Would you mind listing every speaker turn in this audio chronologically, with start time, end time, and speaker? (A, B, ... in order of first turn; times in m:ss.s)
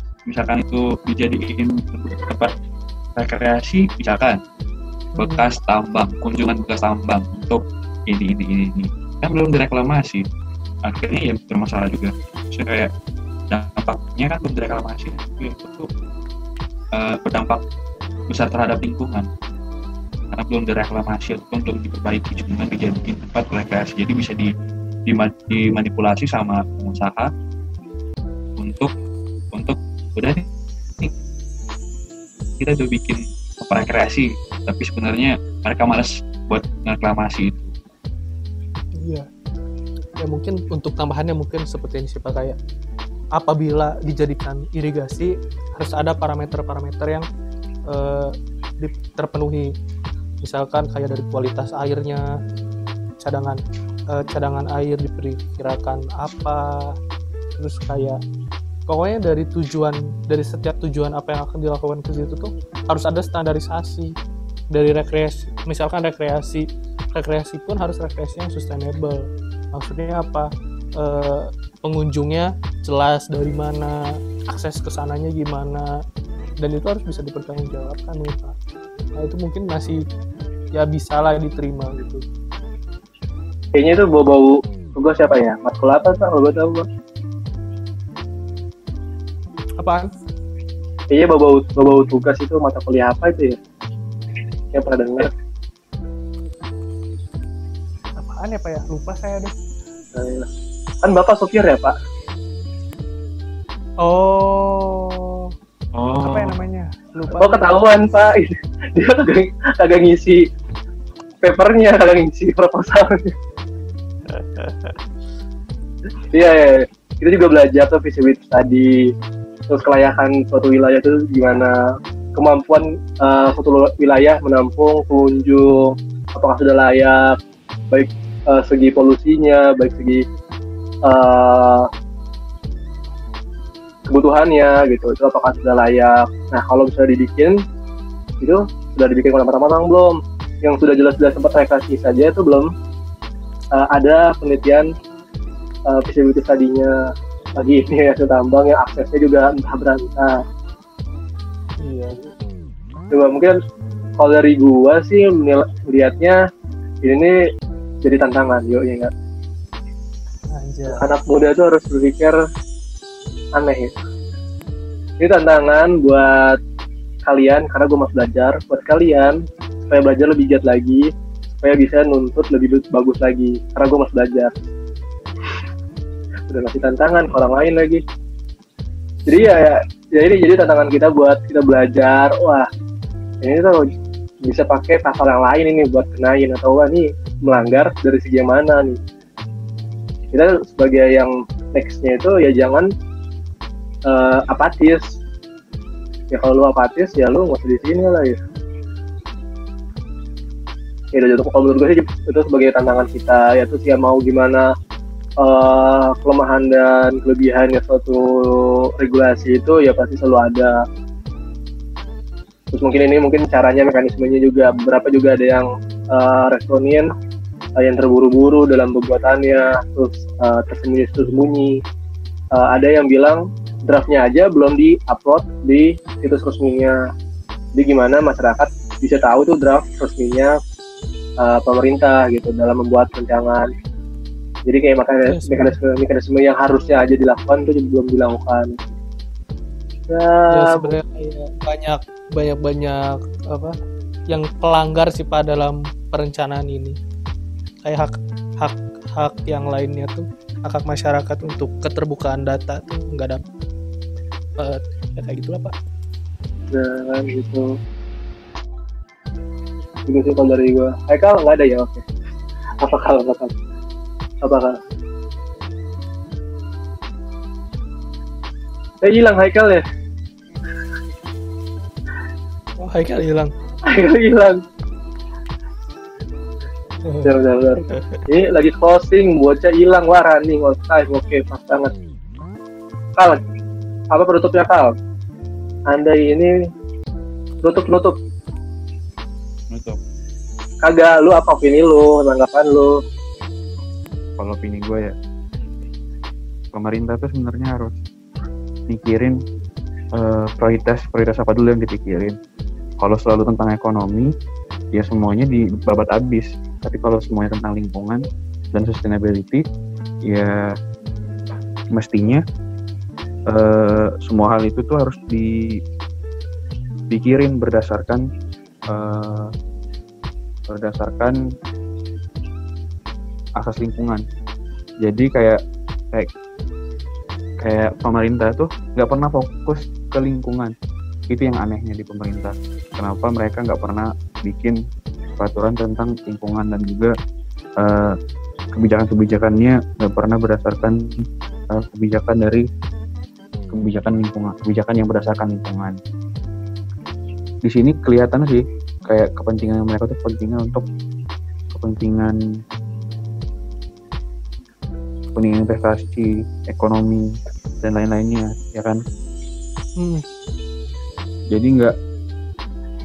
0:00.3-0:02.5 A
0:03.2-0:04.4 A
0:05.2-0:05.5 B
0:05.2-0:10.2 A
0:10.9-0:12.9 A
0:13.5-0:15.9 A
0:16.9-0:17.6 A
0:18.3-0:19.3 A
0:20.3-0:24.5 A
0:25.1-0:27.3 A
0:28.6-0:28.9 A
0:29.5-0:30.4 A
0:32.6-0:37.7 A
0:39.0-0:39.3 B
0:40.2-0:42.6 B
0:43.4-0:47.3 B
0:47.9-0:49.7 B
0:50.4-0:52.3 B
0:53.2-0:53.6 B
0:54.1-0:57.0 B
0:57.6-0:58.2 B
0:58.9-1:04.1 B
1:04.7-1:15.9 B
1:16.6-1:18.6 B
1:19.2-1:20.0 B
1:20.7-1:22.2 B
1:23.7-1:26.9 C
1:29.8-1:30.1 B
1:31.1-1:33.6 C
1:34.7-1:35.3 C
1:38.2-1:39.5 B
1:40.2-1:40.5 C
1:41.0-1:42.0 C
1:44.0-1:45.5 B
1:45.9-1:46.5 A
1:46.2-1:47.8 B
1:47.4-1:50.5 C
1:51.4-1:53.3 C
1:56.3-1:59.1 C
1:59.7-2:01.8 C
2:02.4-2:07.4 C
2:07.9-2:10.2 C
2:11.0-2:11.9 C
2:14.1-2:17.6 C
2:18.4-2:22.7 C
2:23.7-2:24.9 C
2:25.9-2:27.0 C
2:27.6-2:30.4 C
2:31.8-2:32.2 B
2:33.1-2:33.6 C
2:34.2-2:36.4 C
2:37.0-2:37.4 C
2:38.0-2:39.1 C
2:40.5-2:41.0 B
2:40.9-2:42.4 C
2:43.6-2:43.9 C
2:45.2-2:46.6 C
2:47.3-2:51.1 C
2:51.6-2:54.5 C
2:56.5-2:58.0 C
2:59.3-3:02.7 C
3:03.4-3:03.9 C
3:04.4-3:09.0 C
3:10.3-3:12.9 C
3:14.1-3:15.1 C
3:16.3-3:18.4 C
3:21.1-3:24.7 C
3:25.4-3:30.8 C
3:32.7-3:37.1 C
3:37.8-3:41.8 C
3:42.5-3:47.0 C
3:47.8-3:50.6 C
3:51.4-3:53.7 C
3:54.7-3:58.9 C
3:55.3-3:55.8 B
4:00.1-4:00.9 C
4:00.5-4:03.8 B
4:04.3-4:07.0 B
4:07.8-4:13.4 B
4:14.6-4:15.7 B
4:16.7-4:17.7 C
4:20.1-4:22.0 C
4:22.8-4:23.5 C
4:24.4-4:24.8 C
4:29.0-4:29.8 C
4:32.8-4:33.5 B
4:33.9-4:34.6 C
4:37.0-4:37.4 B
4:37.2-4:41.9 C
4:37.9-4:38.2 B
4:44.1-4:44.9 C
4:45.9-4:46.7 C
4:47.6-4:48.2 C
4:49.7-4:50.0 A
4:50.8-4:53.0 C
4:54.4-4:55.1 A
4:56.7-4:57.9 A
4:58.9-4:59.4 A
5:00.2-5:02.4 A
5:03.0-5:04.3 A
5:04.9-5:09.6 A
5:10.3-5:10.7 A
5:11.9-5:12.4 A
5:13.5-5:15.8 A
5:17.1-5:18.2 A
5:18.9-5:19.5 A
5:20.7-5:21.4 A
5:23.6-5:24.2 A
5:25.0-5:25.6 A
5:27.6-5:30.7 A
5:31.3-5:34.8 A
5:35.4-5:37.1 A
5:37.8-5:38.1 A
5:38.8-5:41.0 A
5:41.7-5:42.6 A
5:43.7-5:46.0 A
5:47.6-5:50.8 A
5:51.7-5:52.4 A
5:55.4-5:57.2 A
5:57.8-5:59.0 A
6:00.0-6:00.2 B
6:01.5-6:01.9 A